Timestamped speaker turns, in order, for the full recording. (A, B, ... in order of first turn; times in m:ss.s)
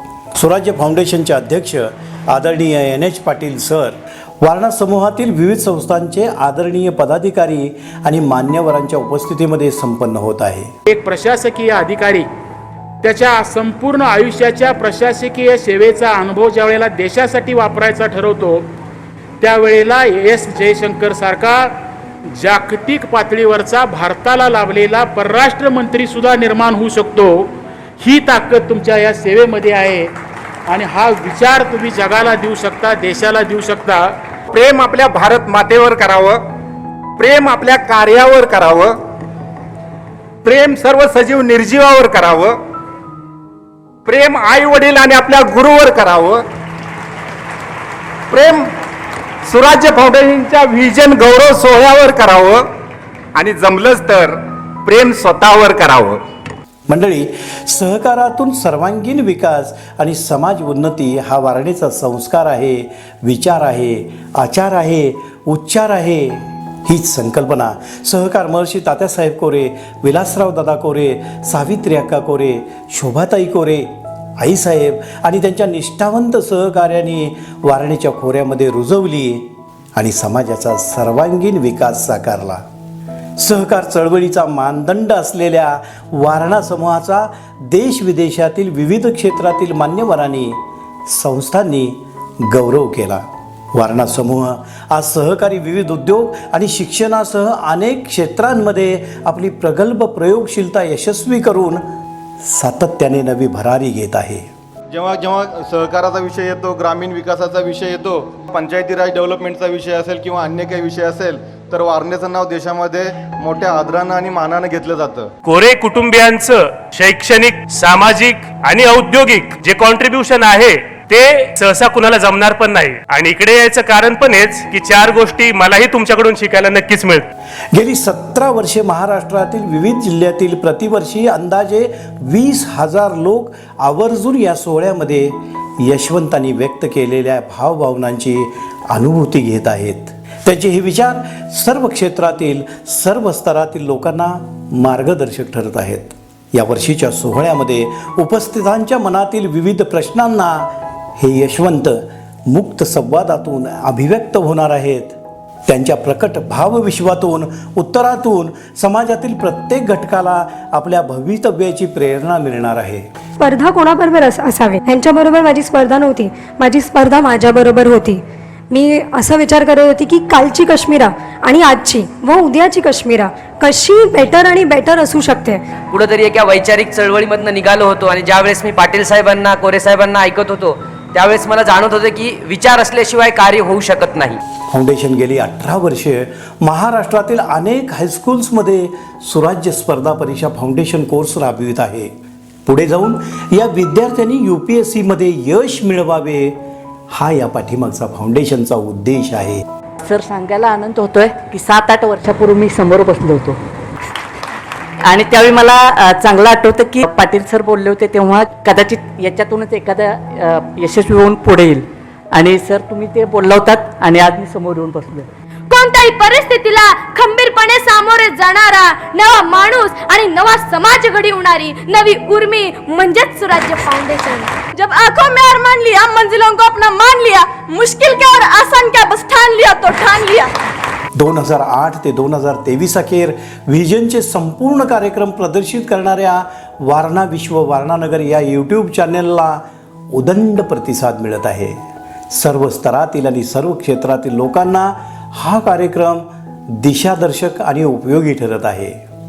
0:00.4-0:10.7 A
0:10.9-0:12.3 B
0:13.0-0:18.6 B
0:19.4-0:21.7 B
0:22.3-0:30.1 B
0:30.7-0:34.1 B
0:34.5-0:36.4 C
0:37.2-0:39.0 C
0:40.4-0:42.6 C
0:44.0-0:46.4 C
0:48.3-0:48.7 C
0:49.4-0:52.6 C
0:53.4-0:56.2 C
0:56.9-1:13.9 A
1:14.4-1:22.6 A
1:23.4-1:41.8 A
1:42.4-1:44.4 A
1:44.9-1:55.3 D
1:55.4-2:07.3 E
2:07.7-2:35.2 A
2:35.7-2:43.1 A
2:43.4-2:55.6 F
2:55.9-3:04.4 G
3:04.7-3:12.1 A
3:12.6-3:16.6 A
3:17.1-3:19.6 A
3:20.1-3:23.5 H
3:25.1-3:30.0 H
3:30.8-3:31.8 H
3:32.3-3:35.2 H
3:35.7-3:50.5 I
3:51.2-3:59.6 A
4:00.1-4:01.8 A
4:02.3-4:09.0 A